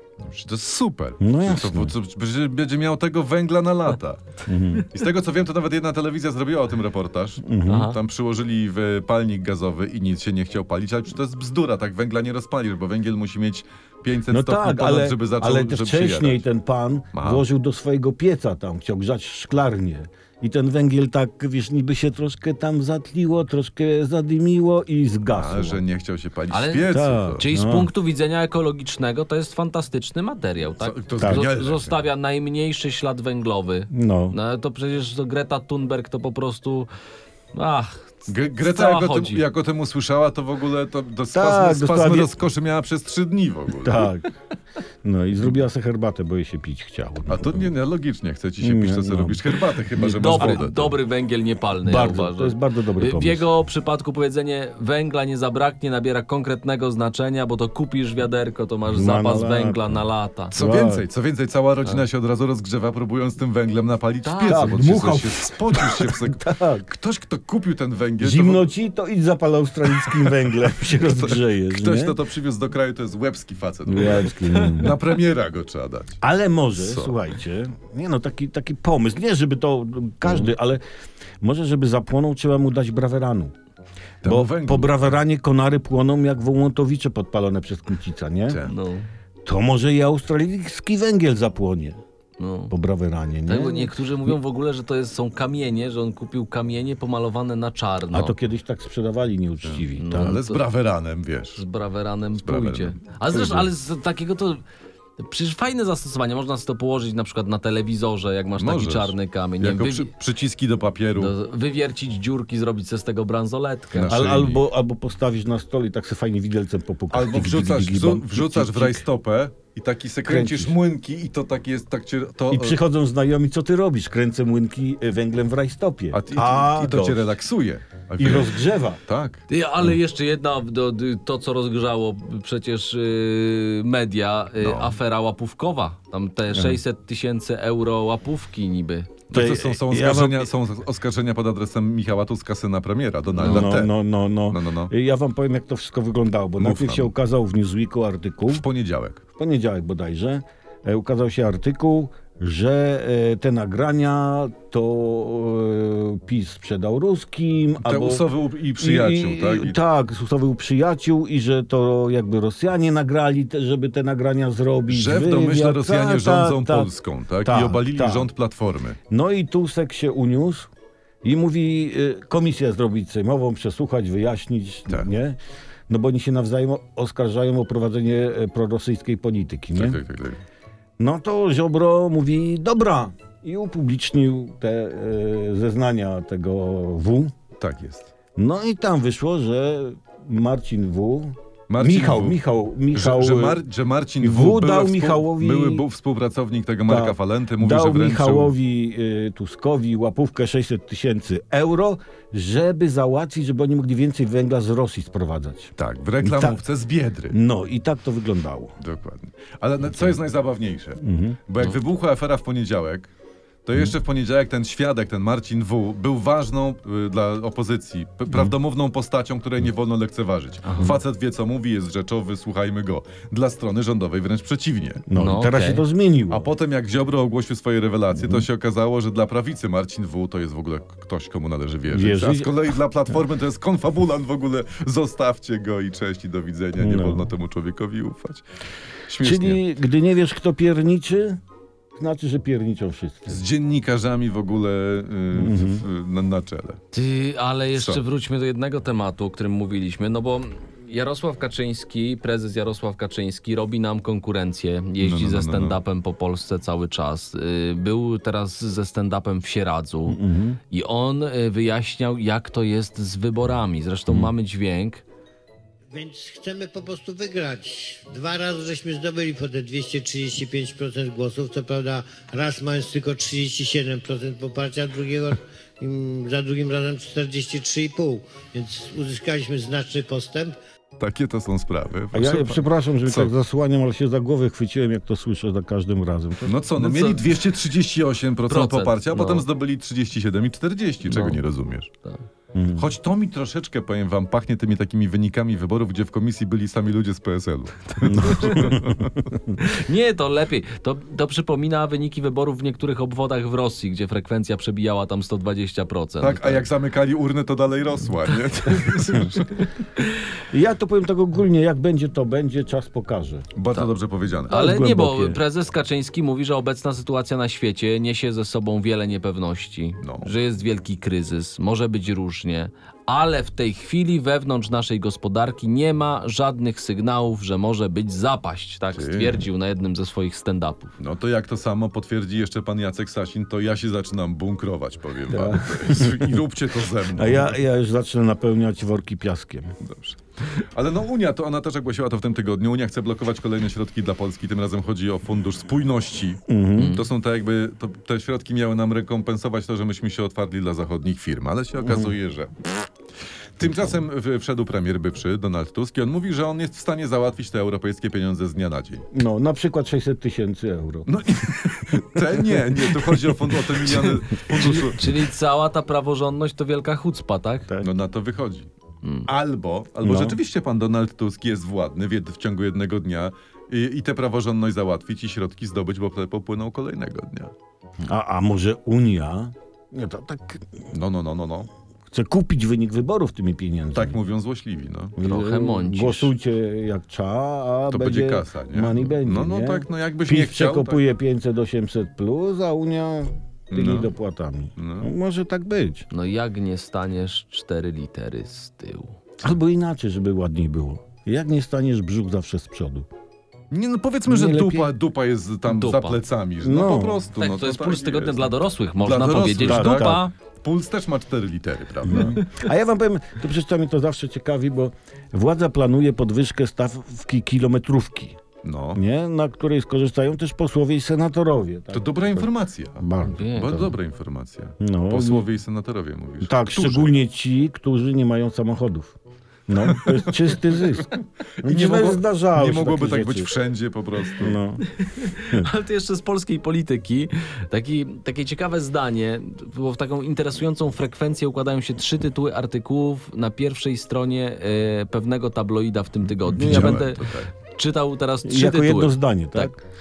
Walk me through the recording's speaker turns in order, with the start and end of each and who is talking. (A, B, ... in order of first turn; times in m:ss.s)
0:00.2-0:04.2 A
0:01.2-0:01.9 B
0:04.5-0:04.8 B
0:04.8-0:16.4 A
0:07.4-0:07.9 B
0:07.7-0:08.0 C
0:14.3-0:25.8 B
0:17.1-0:17.4 A
0:25.3-0:27.4 A
0:26.5-0:36.9 C
0:26.9-0:27.9 B
0:30.8-0:32.0 A
0:31.2-0:31.5 B
0:33.9-0:34.4 B
0:37.5-0:39.4 C
0:38.3-0:44.1 A
0:41.3-0:42.3 B
0:43.8-0:44.2 B
0:45.0-0:47.7 B
0:47.3-0:51.0 A
0:48.6-0:49.4 B
0:50.0-0:50.6 B
0:50.2-1:00.5 C
0:51.8-0:53.5 B
0:58.9-1:00.0 B
1:00.5-1:08.7 A
1:00.5-1:01.0 B
1:04.2-1:04.8 C
1:04.5-1:06.8 B
1:08.2-1:12.2 B
1:10.0-1:10.4 A
1:10.9-1:16.2 A
1:13.8-1:15.0 B
1:16.2-1:20.8 B
1:16.8-1:17.1 A
1:21.4-1:23.5 B
1:24.2-1:25.2 A
1:24.2-1:28.6 B
1:28.5-1:28.7 A
1:28.6-1:29.1 C
1:29.4-1:32.0 B
1:32.4-1:32.7 C
1:32.7-1:34.3 B
1:33.5-1:38.4 C
1:38.1-1:40.4 B
1:39.6-1:41.6 A
1:40.0-1:40.6 C
1:41.6-1:44.6 C
1:42.4-1:43.6 A
1:45.2-1:50.1 C
1:48.6-1:51.3 A
1:51.2-1:54.1 C
1:54.0-1:54.6 A
1:54.1-1:59.0 B
1:57.1-2:02.8 A
2:00.2-2:00.7 B
2:02.5-2:07.3 B
2:06.1-2:09.4 A
2:08.2-2:09.0 B
2:09.5-2:19.3 C
2:14.6-2:15.0 A
2:16.5-2:16.8 B
2:19.3-2:23.9 A
2:19.3-2:20.5 B
2:23.4-2:28.6 B
2:23.4-2:23.7 C
2:24.5-2:24.9 A
2:26.6-2:27.1 A
2:28.5-2:29.2 A
2:29.4-2:38.3 B
2:37.8-2:39.8 A
2:38.8-2:46.9 B
2:44.9-2:49.0 A
2:47.4-2:48.3 B
2:49.1-2:50.7 B
2:51.2-2:55.4 B
2:55.9-3:00.0 B
2:59.7-3:00.4 A
3:01.0-3:07.3 B
3:07.6-3:08.1 A
3:08.4-3:13.6 B
3:11.7-3:12.4 A
3:12.9-3:18.6 A
3:14.2-3:15.8 B
3:16.9-3:26.6 B
3:25.8-3:27.4 A
3:27.3-3:28.7 B
3:28.8-3:33.1 A
3:31.0-3:31.4 B
3:33.6-3:45.0 A
3:40.6-3:41.0 C
3:45.1-3:46.5 B
3:45.1-3:45.8 C
3:46.3-3:58.4 A
3:48.1-3:48.4 B
3:51.9-3:52.5 B
3:56.8-3:57.3 B
3:59.1-3:59.6 A
3:59.2-4:01.4 B
4:02.0-4:03.4 B
4:03.3-4:06.8 A
4:05.3-4:05.8 B
4:06.9-4:20.2 C
4:07.7-4:08.0 A
4:15.0-4:15.8 A
4:20.1-4:20.6 B
4:20.7-4:25.0 C
4:25.9-4:40.6 D
4:41.0-4:43.3 A
4:42.1-4:46.6 B
4:46.4-4:51.9 A
4:46.8-4:47.2 C
4:48.5-4:49.4 C
4:51.0-4:51.4 C
4:52.5-4:52.8 B
4:52.8-4:59.2 A
4:58.0-4:59.5 B
4:58.2-4:58.7 C
4:59.6-5:06.6 C
5:06.2-5:09.6 A
5:08.6-5:10.2 C
5:10.5-5:13.4 B
5:13.6-5:14.6 A
5:14.5-5:30.9 C
5:14.5-5:15.4 B
5:20.0-5:20.3 A
5:28.9-5:29.4 A
5:31.0-5:37.6 A
5:35.3-5:36.4 B
5:37.1-5:39.7 B
5:39.8-5:52.7 A
5:46.5-5:47.0 B
5:46.8-5:47.0 C
5:51.8-5:52.1 B
5:53.6-5:59.0 A
5:53.6-5:53.9 B
5:59.1-6:01.1 B
6:01.1-6:05.1 A
6:04.5-6:07.7 C
6:07.8-6:08.7 A
6:09.2-6:17.5 A
6:10.0-6:10.4 B
6:18.0-6:20.7 B
6:20.9-6:21.7 A
6:22.1-6:24.2 B
6:23.9-6:25.2 A
6:25.2-6:36.0 B
6:25.2-6:26.3 C
6:27.9-6:31.0 A
6:33.7-6:34.1 A
6:34.8-6:35.1 A
6:36.1-6:39.2 C
6:39.4-6:43.1 B
6:43.7-6:52.4 A
6:44.3-6:44.9 B
6:45.7-6:46.2 C
6:46.6-6:47.2 B
6:47.4-6:50.3 C
6:49.6-6:50.2 B
6:52.0-6:58.4 B
6:58.6-6:59.0 A
6:58.9-7:03.9 B
7:01.9-7:07.1 A
7:03.2-7:03.9 C
7:04.8-7:05.5 B
7:06.4-7:09.2 B
7:09.7-7:11.1 B
7:09.9-7:10.5 A
7:11.6-7:13.5 B
7:11.6-7:14.6 A
7:14.4-7:14.8 B
7:14.9-7:29.7 C
7:26.5-7:27.5 A
7:26.6-7:27.0 B
7:28.4-7:29.8 B